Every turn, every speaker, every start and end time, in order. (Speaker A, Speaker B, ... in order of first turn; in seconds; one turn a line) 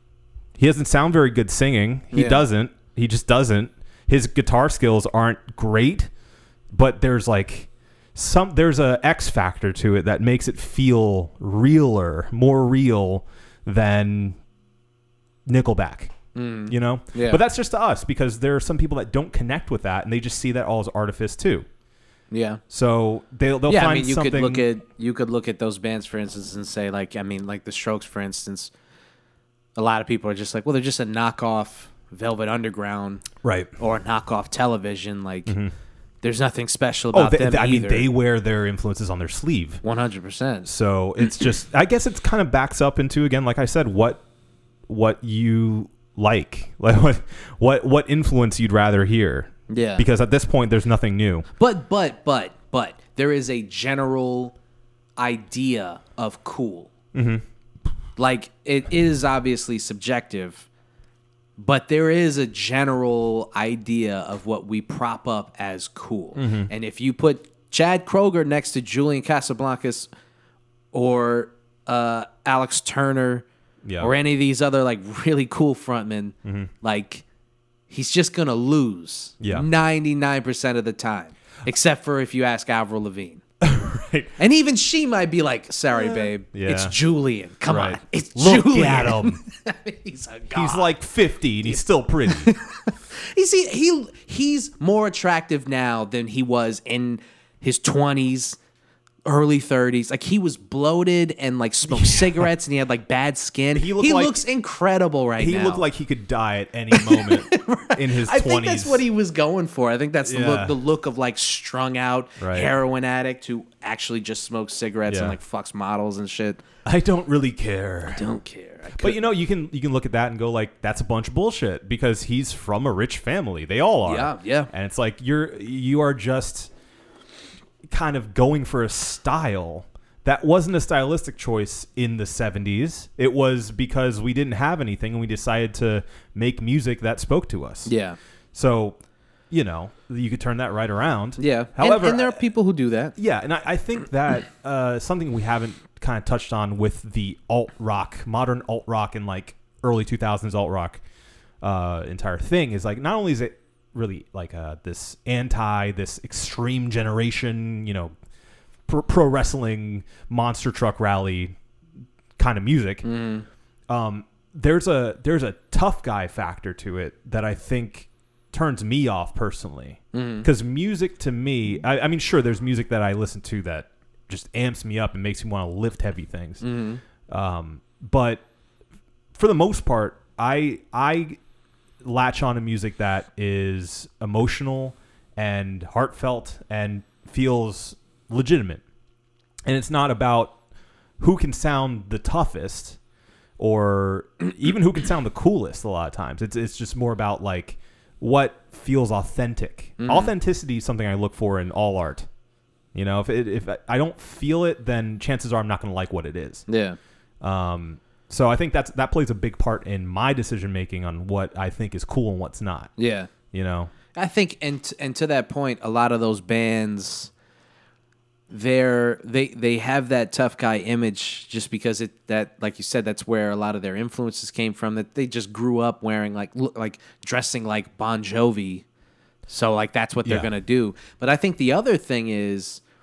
Speaker A: 0.6-6.1
Speaker B: 2.1-2.4
Speaker A: 6.7-14.4
Speaker A: 15.4-16.1
Speaker B: 16.3-17.4
Speaker A: 16.7-21.7
Speaker B: 22.3-22.6
Speaker A: 22.7-24.7
Speaker B: 23.7-28.7
Speaker B: 29.8-33.2
Speaker A: 33.4-33.7
Speaker B: 33.8-35.5
Speaker A: 35.5-35.7
Speaker B: 36.2-38.1
Speaker A: 37.1-39.8
Speaker B: 39.8-40.7
Speaker A: 40.6-44.2
Speaker A: 44.9-51.5
Speaker B: 49.7-50.0
Speaker B: 51.6-54.5
Speaker B: 55.2-56.9
Speaker A: 57.1-57.4
Speaker B: 58.2-60.7
Speaker B: 61.6-70.1
Speaker A: 66.3-66.7
Speaker B: 70.9-73.5
Speaker A: 73.8-74.1
Speaker B: 74.0-77.2
Speaker A: 76.4-76.7
Speaker B: 77.9-83.4
Speaker A: 79.4-79.7
Speaker A: 83.6-84.3
Speaker B: 84.4-90.9
Speaker A: 85.9-87.0
Speaker A: 87.7-89.4
Speaker A: 90.5-92.5
Speaker B: 91.7-98.6
Speaker B: 99.2-105.8
Speaker A: 101.9-102.5
Speaker A: 103.7-104.4
Speaker A: 105.4-109.1
Speaker B: 106.9-116.6
Speaker A: 110.2-110.8
Speaker A: 112.4-112.7
Speaker A: 115.1-115.4
Speaker A: 116.8-118.3
Speaker B: 118.1-119.2
Speaker A: 119.0-126.7
Speaker B: 124.0-124.7
Speaker A: 127.9-137.9
Speaker B: 137.8-138.2
Speaker A: 138.5-139.0
Speaker A: 139.5-142.4
Speaker B: 141.4-143.1
Speaker A: 143.2-151.0
Speaker A: 151.6-158.1
Speaker A: 158.9-161.6
Speaker A: 162.4-163.1
Speaker B: 163.0-163.4
Speaker A: 163.9-176.6
Speaker B: 170.1-170.5
Speaker B: 176.6-177.0
Speaker A: 177.3-178.4
Speaker A: 179.3-181.4
Speaker A: 182.0-188.8
Speaker A: 189.7-190.6
Speaker A: 191.2-193.0
Speaker A: 193.6-202.3
Speaker B: 200.0-200.3
Speaker A: 202.9-206.7
Speaker B: 206.7-207.0
Speaker A: 207.4-212.9
Speaker B: 213.0-213.3
Speaker A: 213.5-213.9
Speaker B: 214.1-217.3
Speaker B: 218.5-228.8
Speaker B: 229.5-232.8